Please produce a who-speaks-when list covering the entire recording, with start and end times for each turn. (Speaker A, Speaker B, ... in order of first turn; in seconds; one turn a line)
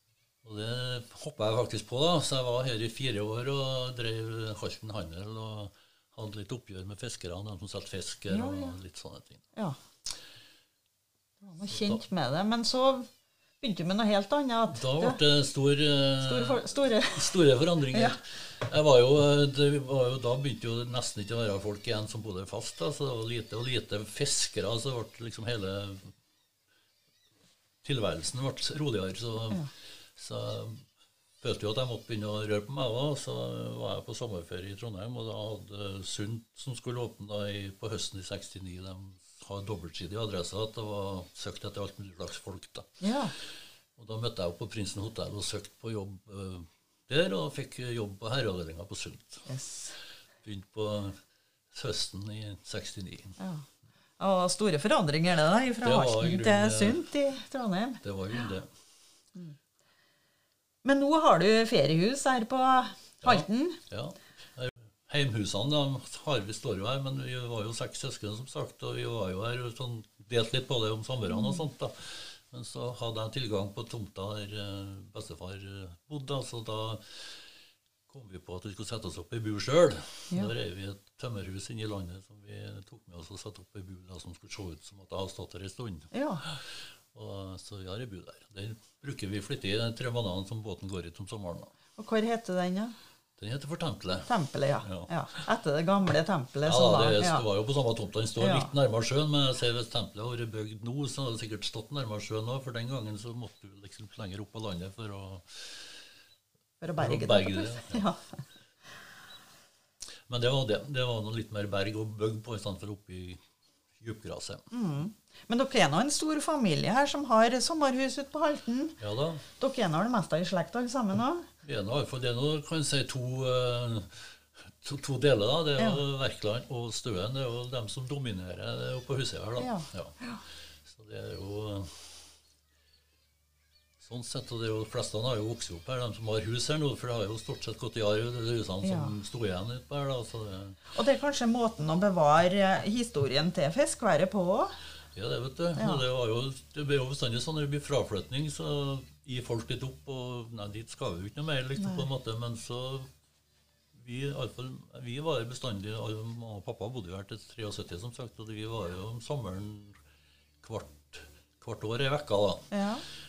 Speaker A: 0.4-9.4
Speaker B: 8.3-8.8
Speaker B: 11.4-13.1
Speaker A: 11.6-12.0
Speaker B: 13.6-15.2
Speaker A: 14.7-26.1
Speaker B: 16.2-17.4
Speaker B: 17.9-18.2
Speaker A: 27.8-30.9
Speaker A: 31.4-43.0
Speaker B: 43.0-43.3
Speaker A: 44.0-49.5
Speaker B: 49.5-50.0
Speaker A: 50.4-51.2
Speaker A: 51.7-53.4
Speaker B: 53.4-53.6
Speaker B: 54.2-58.0
Speaker A: 55.8-57.0
Speaker A: 58.0-58.7
Speaker B: 60.8-63.8
Speaker A: 63.2-77.4
Speaker B: 71.3-71.6
Speaker A: 78.1-91.7
Speaker B: 86.1-86.4
Speaker B: 92.0-92.9
Speaker A: 93.4-94.3
Speaker B: 94.3-97.4
Speaker A: 94.8-95.1
Speaker A: 96.6-106.0
Speaker B: 98.4-98.7
Speaker B: 106.8-108.2
Speaker A: 107.0-108.1
Speaker A: 110.3-113.4
Speaker A: 114.0-114.7
Speaker B: 114.7-119.0
Speaker A: 119.0-119.4
Speaker B: 119.6-121.5
Speaker A: 121.6-130.2
Speaker B: 129.6-130.4
Speaker A: 130.8-132.2
Speaker A: 134.0-140.8
Speaker B: 138.8-139.1
Speaker B: 140.9-144.7
Speaker A: 145.1-153.1
Speaker B: 145.8-146.0
Speaker B: 151.8-152.1
Speaker A: 153.9-160.0
Speaker A: 160.6-162.7
Speaker B: 162.7-163.0